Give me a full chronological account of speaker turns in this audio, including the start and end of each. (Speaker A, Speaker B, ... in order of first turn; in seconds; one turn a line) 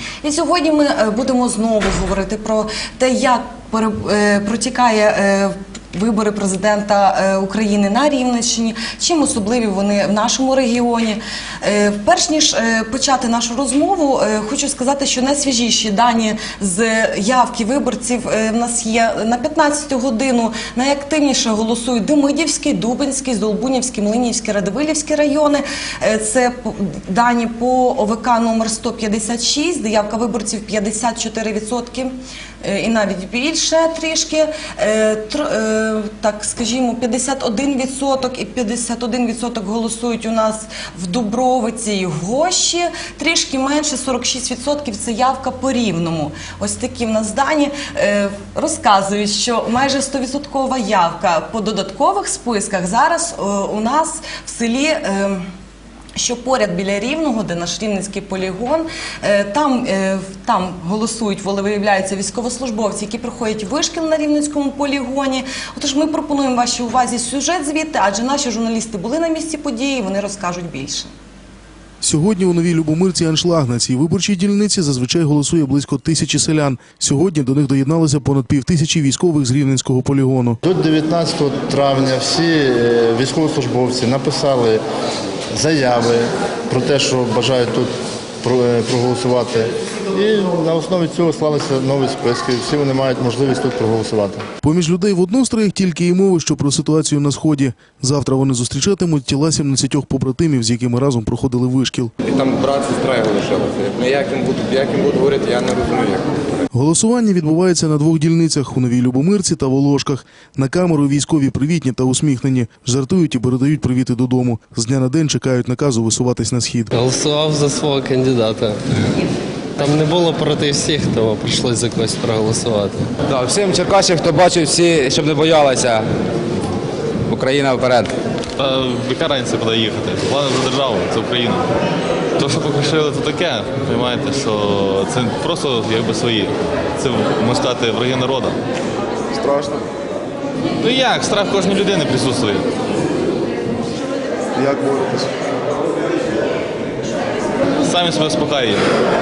Speaker A: 0.2-55.4
Speaker A: 56.1-71.1
Speaker B: 72.0-80.6
Speaker C: 80.6-84.8
Speaker C: 85.5-94.4
Speaker B: 94.6-102.1
Speaker D: 102.2-106.3
Speaker B: 106.7-116.9
Speaker E: 116.9-118.8
Speaker E: 119.8-123.1
Speaker F: 123.3-126.1
Speaker F: 127.3-128.1
Speaker G: 128.6-131.6
Speaker G: 132.4-138.5
Speaker G: 140.9-142.6
Speaker G: 147.9-148.8